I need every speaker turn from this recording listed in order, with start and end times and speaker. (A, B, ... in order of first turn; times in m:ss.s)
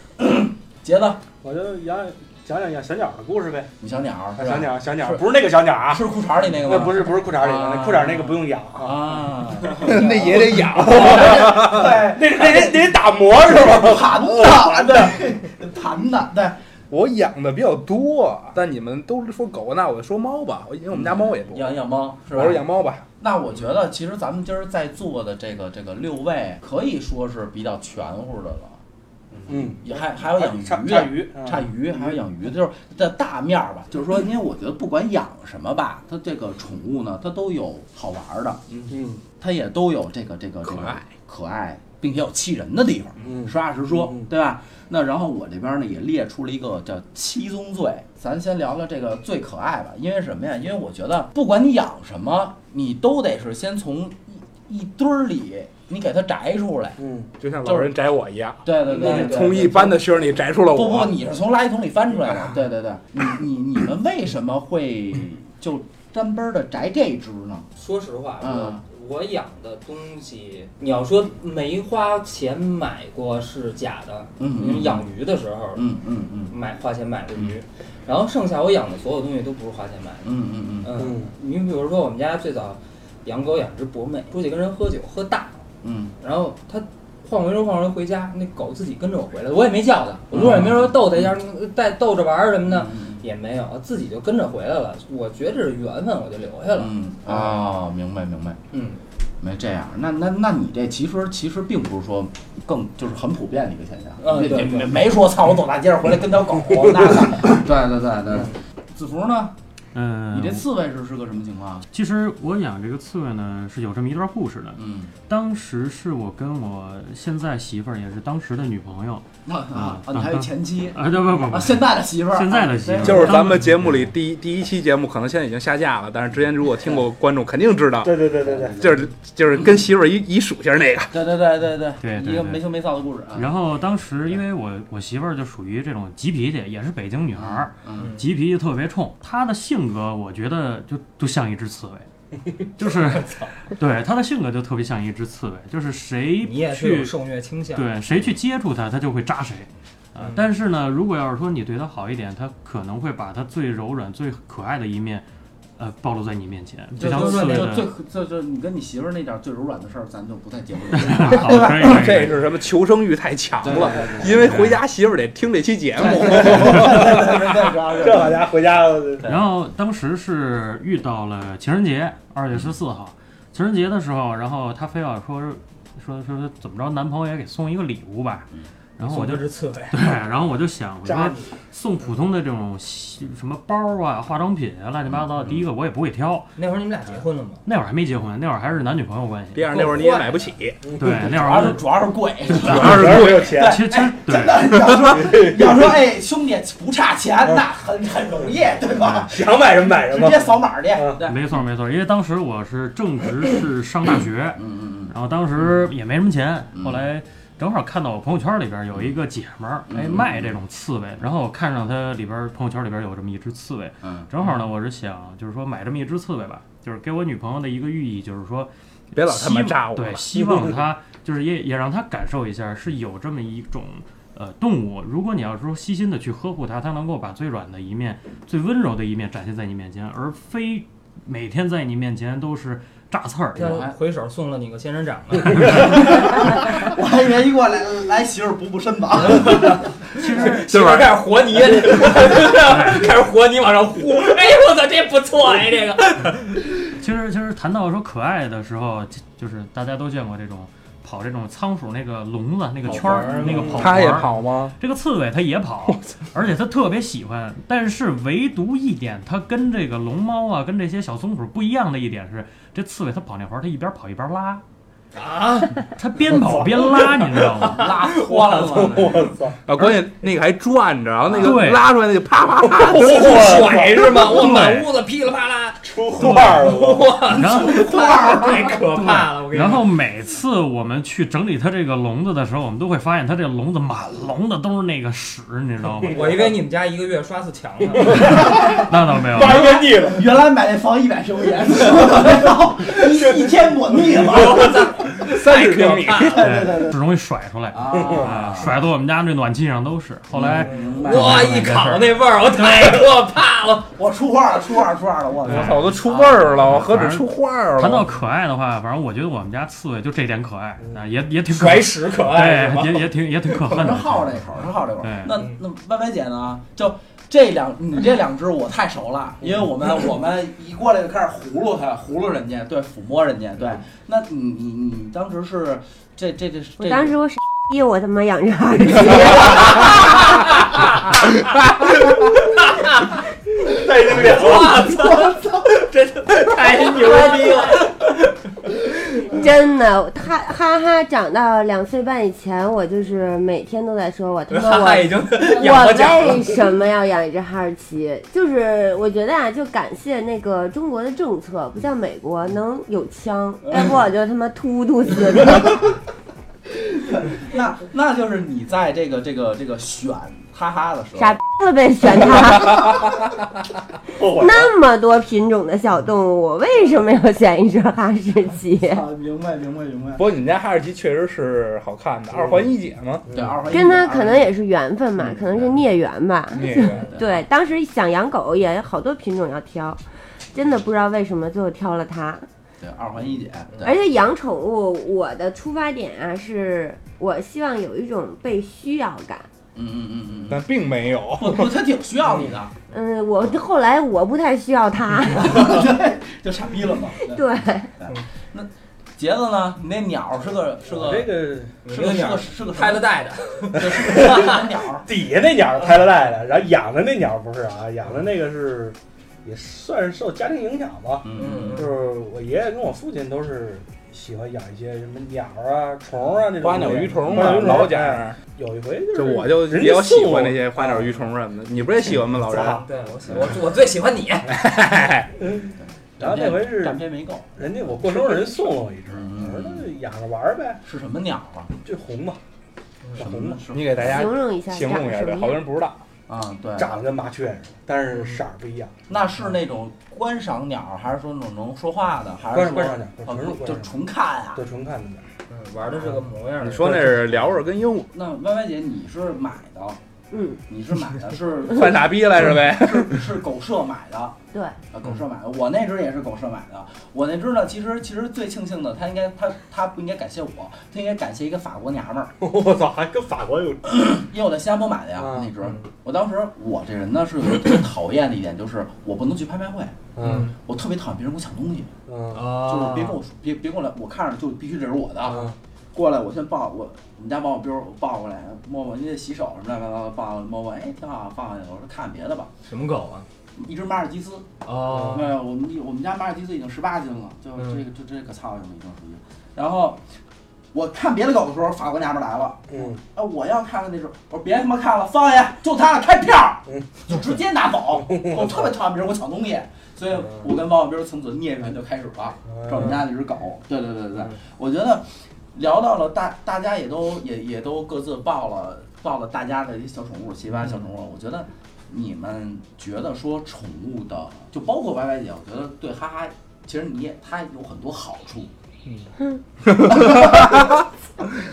0:00.2-0:01.2 A
0:01.4-0:03.7 B
0:03.8-0:05.2 A
0:04.4-0:06.0 B
0:05.8-0:12.8 A
0:06.6-0:09.1 B
0:09.8-0:11.8 C
0:10.6-0:15.2 B
0:13.4-0:16.6 A
0:16.9-0:21.7 C
0:20.9-0:22.7 A
0:22.3-0:23.0 C
0:23.2-0:38.7 A
0:29.5-0:32.2 B
0:38.9-0:39.2 B
0:39.3-0:57.0 A
0:40.7-0:41.1 C
0:43.2-0:44.2 B
0:57.0-0:57.3 B
0:57.4-1:01.1 C
0:57.6-0:57.9 A
0:58.6-1:00.1 A
0:58.9-0:59.4 D
1:00.7-1:07.7 A
1:07.8-1:15.8 D
1:08.4-1:08.8 A
1:14.4-1:15.1 A
1:15.7-1:16.5 A
1:16.5-1:20.3 D
1:20.2-1:21.1 A
1:20.8-1:25.5 D
1:21.0-1:21.3 B
1:25.8-1:26.1 A
1:26.2-1:36.9 D
1:30.3-1:31.3 A
1:32.7-1:33.2 A
1:36.7-1:38.6 A
1:38.7-1:39.0 D
1:39.4-1:49.5 A
1:44.2-1:45.0 D
1:49.9-1:50.6 E
1:50.3-1:51.9 A
1:51.9-2:04.1 E
1:54.8-1:55.1 A
1:59.4-2:03.4 A
2:03.0-2:11.1 C
2:08.0-2:08.8 B
2:08.4-2:09.1 A
2:11.1-2:13.5 A
2:12.0-2:12.6 E
2:13.3-2:22.1 E
2:17.3-2:18.1 A
2:18.0-2:18.2 D
2:22.8-2:27.1 E
2:23.2-2:23.5 D
2:26.4-2:27.9 D
2:27.7-2:35.2 E
2:30.2-2:30.4 D
2:35.8-2:37.9 E
2:37.0-2:37.7 D
2:37.0-2:42.1 A
2:40.9-2:42.3 E
2:41.4-2:47.4 C
2:43.6-2:44.6 A
2:44.3-2:44.8 E
2:46.0-2:48.5 A
2:46.3-2:47.4 B
2:47.9-2:49.3 B
2:49.2-3:06.5 E
2:59.0-3:00.0 D
3:01.0-3:01.4 B
3:05.1-3:05.6 A
3:06.6-3:07.6 D
3:07.6-3:09.7 E
3:09.5-3:10.9 C
3:09.7-3:10.4 D
3:10.8-3:11.2 B
3:10.9-3:11.9 E
3:11.2-3:21.4 A
3:12.6-3:13.4 C
3:12.6-3:13.8 B
3:13.5-3:14.7 E
3:15.1-3:15.8 B
3:19.1-3:21.2 B
3:21.2-3:53.8 E
3:24.6-3:25.1 A
3:26.7-3:27.0 A
3:29.9-3:30.6 A
3:34.0-3:34.3 A
3:39.1-3:40.4 C
3:53.5-3:55.9 D
3:53.6-3:53.9 A
3:55.7-3:59.8 A
3:59.2-4:06.7 D
4:00.2-4:01.0 E
4:00.6-4:01.1 C
4:02.7-4:03.0 E
4:06.9-4:24.6 E
4:12.9-4:13.8 D
4:13.3-4:13.7 B
4:13.6-4:14.7 C
4:25.1-4:25.8 D
4:25.8-4:28.0 E
4:26.3-4:27.3 B
4:27.4-4:29.0 D
4:27.6-4:29.3 A
4:28.6-4:29.6 B
4:29.6-4:33.6 C
4:31.3-4:31.8 E
4:32.6-4:34.1 B
4:32.9-4:39.8 D
4:34.2-4:34.9 E
4:35.8-4:37.1 B
4:37.3-4:37.9 E
4:37.3-4:38.9 A
4:38.9-4:46.4 E
4:46.0-4:46.5 B
4:46.1-4:48.4 D
4:48.0-4:50.3 B
4:48.1-4:49.6 E
4:49.4-4:54.9 A
4:54.1-4:56.5 D
4:55.2-4:56.5 C
4:56.3-5:02.2 E
4:56.4-4:56.9 A
4:57.7-4:58.8 A
5:00.3-5:01.8 A
5:00.6-5:03.9 D
5:03.9-5:06.8 A
5:05.4-5:08.1 C
5:05.5-5:05.8 E
5:06.6-5:14.4 E
5:11.5-5:13.1 D
5:13.6-5:27.1 A
5:15.0-5:15.4 E
5:26.8-5:30.0 F
5:32.4-5:33.1 D
5:33.7-5:35.0 B
5:34.0-5:39.4 D
5:37.0-5:37.8 F
5:39.2-5:55.9 F
5:44.5-5:46.6 D
5:56.8-6:01.4 A
6:01.2-6:03.0 F
6:04.1-6:04.7 B
6:04.2-6:09.0 F
6:08.8-6:10.2 A
6:10.2-6:13.3 C
6:13.3-6:13.6 B
6:13.3-6:14.5 A
6:13.7-6:22.5 F
6:16.5-6:17.2 C
6:16.8-6:17.4 A
6:22.8-6:24.0 A
6:23.8-6:29.5 F
6:29.7-6:30.6 A
6:30.5-6:31.7 C
6:31.4-6:32.7 A
6:32.9-6:35.7 F
6:35.3-6:37.4 A
6:37.2-6:38.0 F
6:38.0-6:43.1 A
6:40.9-6:41.8 B
6:41.8-6:44.6 D
6:43.7-6:45.1 A
6:43.9-7:01.1 B
6:51.2-6:51.8 A
6:51.3-6:52.0 D
6:56.6-6:58.4 C
6:59.1-7:02.8 C
7:02.5-7:02.8 B
7:02.5-7:04.6 D
7:04.5-7:05.3 C
7:05.6-7:07.9 A
7:06.2-7:07.0 B
7:07.6-7:10.8 B
7:09.1-7:09.9 A
7:10.8-7:11.7 A
7:11.8-7:12.4 B
7:13.2-7:13.6 B
7:13.2-7:14.1 A
7:13.7-7:16.0 C
7:14.0-7:15.6 F
7:16.3-7:16.9 A
7:16.8-7:18.9 B
7:18.1-7:18.4 D
7:19.1-7:24.6 A
7:22.5-7:23.9 B
7:24.5-7:25.2 B
7:25.5-7:27.1 D
7:26.6-7:28.1 C
7:28.1-7:30.0 A
7:30.3-7:30.6 F
7:30.7-7:34.4 A
7:31.7-7:33.2 C
7:34.9-7:42.3 A
7:42.4-7:43.9 B
7:43.8-7:50.0 A
7:45.2-7:45.5 B
7:50.1-7:50.5 B
7:50.2-7:50.5 D
7:50.6-7:51.9 A
7:52.1-7:52.4 B
7:52.3-7:53.2 D
7:52.5-8:02.5 A
7:55.3-7:55.6 B
8:02.7-8:03.3 D
8:03.6-8:04.5 A
8:04.6-8:05.3 D
8:05.0-8:10.0 A
8:07.6-8:07.8 D
8:10.7-8:38.5 A
8:12.7-8:13.0 B
8:16.7-8:17.0 B
8:18.0-8:18.6 B
8:22.5-8:22.9 B
8:39.8-8:40.8 A